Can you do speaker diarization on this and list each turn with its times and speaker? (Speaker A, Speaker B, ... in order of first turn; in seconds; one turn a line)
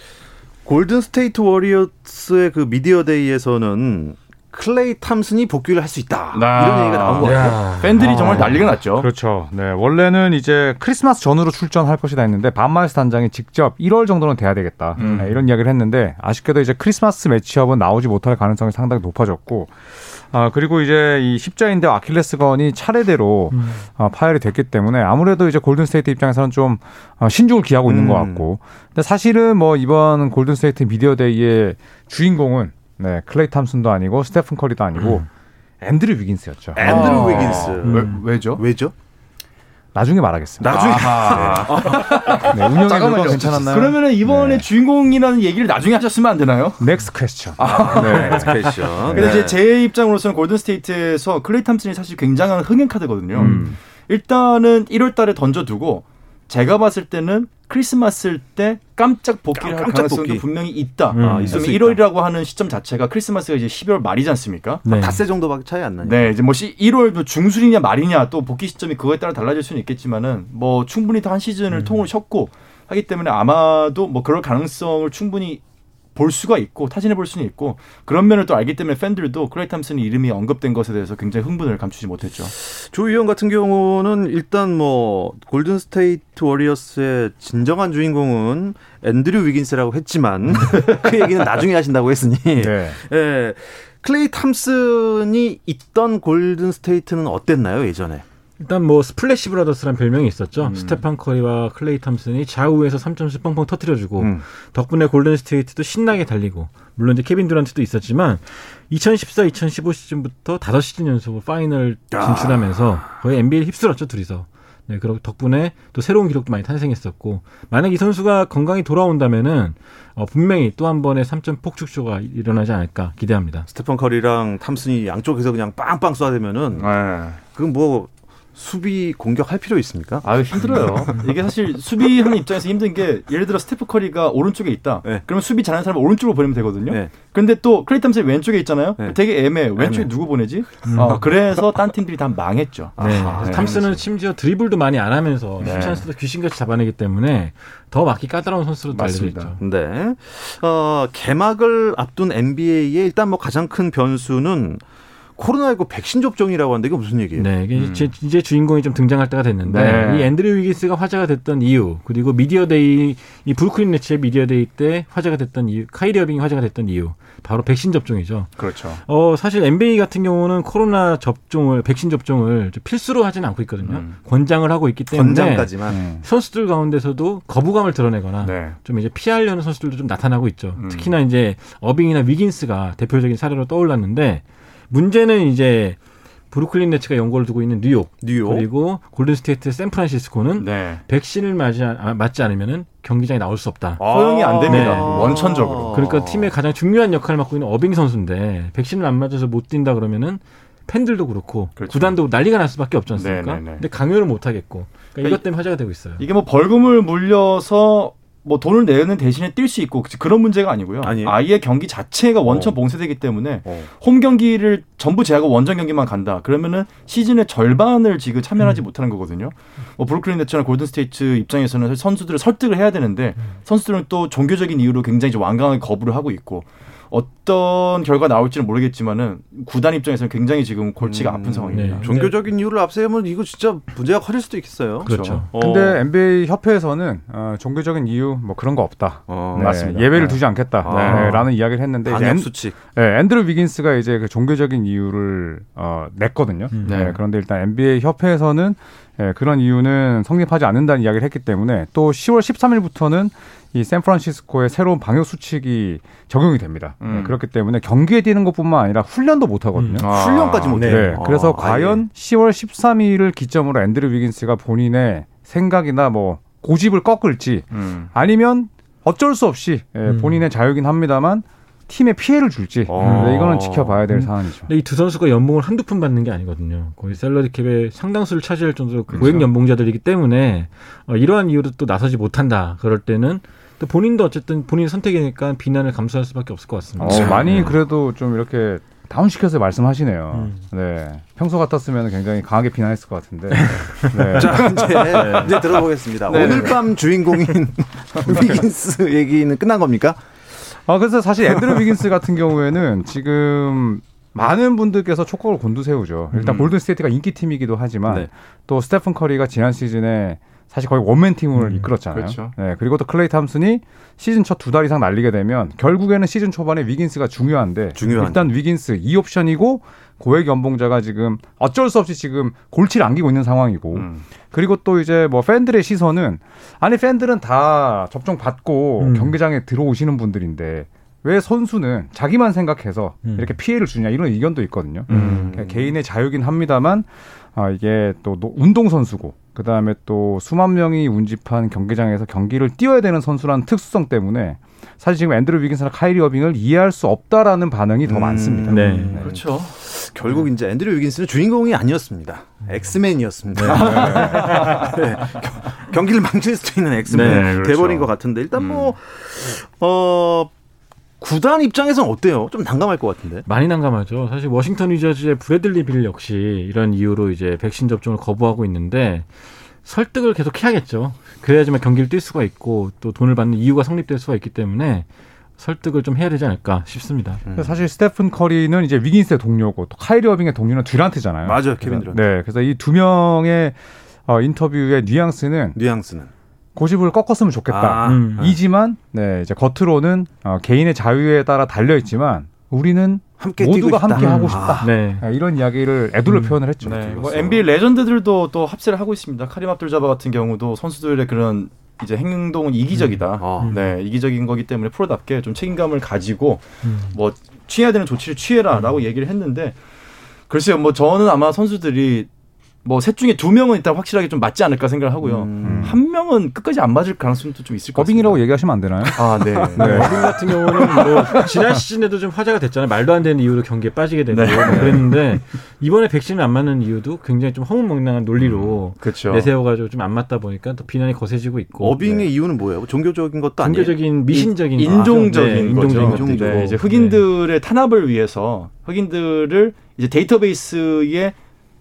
Speaker A: 0.6-8.6
Speaker B: 6.3-9.1
Speaker C: 7.2-8.6
Speaker D: 8.0-35.2
Speaker B: 15.0-15.4
Speaker C: 23.5-23.8
Speaker A: 27.9-28.5
Speaker D: 35.8-37.5
Speaker A: 36.8-38.9
Speaker B: 36.8-38.6
Speaker C: 37.8-38.2
Speaker D: 39.9-44.6
Speaker A: 40.6-42.5
Speaker B: 40.6-46.9
Speaker D: 46.8-49.4
Speaker B: 47.6-64.8
Speaker A: 47.6-49.6
Speaker D: 53.3-53.8
Speaker C: 53.4-53.7
Speaker A: 59.6-60.4
Speaker C: 61.1-61.6
Speaker A: 61.2-62.0
Speaker C: 64.8-65.2
Speaker A: 64.9-66.3
Speaker B: 66.0-75.6
Speaker B: 76.1-82.5
Speaker A: 82.6-98.2
Speaker D: 92.6-93.0
Speaker C: 98.6-123.7
Speaker B: 100.6-101.0
Speaker A: 104.2-104.4
Speaker A: 112.1-112.7
Speaker A: 123.7-131.2
Speaker B: 126.8-127.4
Speaker B: 130.2-143.8
Speaker A: 136.9-137.1
Speaker A: 139.8-140.1
Speaker C: 140.8-141.2
Speaker A: 143.0-144.0
Speaker C: 143.0-149.6
Speaker B: 145.6-146.0
Speaker A: 145.6-146.0
Speaker B: 148.9-149.5
Speaker A: 149.6-154.8
Speaker A: 155.4-157.5
Speaker C: 157.4-186.0
Speaker B: 157.8-158.1
Speaker B: 159.7-160.3
Speaker B: 168.6-169.0
Speaker B: 173.8-174.1
Speaker A: 175.1-176.0
Speaker D: 175.9-176.2
Speaker B: 178.4-178.8
Speaker B: 180.8-181.1
Speaker C: 186.5-194.0
Speaker A: 188.2-188.7
Speaker B: 190.6-191.0
Speaker B: 194.0-196.0
Speaker A: 194.0-196.5
Speaker C: 194.6-206.2
Speaker B: 201.8-202.1
Speaker B: 203.1-203.8
Speaker B: 206.2-232.1
Speaker A: 211.0-211.4
Speaker A: 212.4-212.7
Speaker A: 231.0-236.0
Speaker C: 231.7-232.3
Speaker C: 235.0-235.5
Speaker B: 235.1-235.4
Speaker D: 235.6-260.1
Speaker A: 239.3-240.1
Speaker B: 239.6-240.1
Speaker A: 240.8-241.3
Speaker B: 240.8-241.3
Speaker C: 241.1-241.5
Speaker A: 242.0-242.8
Speaker B: 246.8-247.2
Speaker B: 257.0-257.3
Speaker C: 259.8-260.0
Speaker B: 260.0-260.8
Speaker A: 260.0-262.0
Speaker C: 260.7-261.1
Speaker D: 260.8-274.7
Speaker B: 267.7-268.1
Speaker C: 270.1-270.4
Speaker A: 272.9-274.0
Speaker B: 273.0-273.3
Speaker C: 273.0-273.3
Speaker C: 274.1-287.8
Speaker B: 279.1-279.4
Speaker D: 287.0-294.8
Speaker A: 287.0-287.6
Speaker B: 287.1-287.4
Speaker C: 290.3-290.6
Speaker C: 293.5-295.6
Speaker A: 294.4-300.2
Speaker B: 296.3-297.0
Speaker B: 298.2-298.6
Speaker D: 300.9-349.4
Speaker B: 306.3-306.7
Speaker C: 311.6-311.9
Speaker B: 312.1-312.5
Speaker A: 317.9-318.5
Speaker B: 323.9-324.2
Speaker C: 329.0-329.4
Speaker C: 333.2-333.5
Speaker B: 335.1-335.5
Speaker A: 335.1-335.9
Speaker A: 348.0-360.5
Speaker C: 348.7-349.2
Speaker B: 349.2-349.7
Speaker C: 353.5-355.1
Speaker D: 353.6-354.8
Speaker B: 353.7-354.4
Speaker B: 357.1-358.9
Speaker C: 357.1-357.5
Speaker A: 361.2-363.5
Speaker C: 363.5-369.3
Speaker C: 369.8-375.1
Speaker C: 375.6-377.4
Speaker A: 377.4-377.8
Speaker D: 377.5-383.8
Speaker A: 381.4-382.2
Speaker D: 384.3-385.8
Speaker A: 385.8-386.3
Speaker D: 386.8-397.4
Speaker A: 387.7-388.6
Speaker C: 388.0-388.5
Speaker A: 393.4-394.9
Speaker C: 394.2-395.2
Speaker C: 396.3-396.6
Speaker B: 396.8-409.8
Speaker A: 397.1-397.6
Speaker C: 403.0-403.9
Speaker A: 403.4-403.8
Speaker C: 406.8-407.2
Speaker B: 410.5-412.3
Speaker B: 412.9-418.5
Speaker A: 415.2-415.9
Speaker D: 415.6-416.0
Speaker D: 417.9-420.3
Speaker B: 419.1-420.1
Speaker C: 419.8-432.3
Speaker A: 419.8-420.3
Speaker B: 424.3-425.4
Speaker B: 428.4-429.5
Speaker A: 431.8-434.0
Speaker C: 433.6-437.2
Speaker B: 434.3-441.4
Speaker A: 435.1-436.7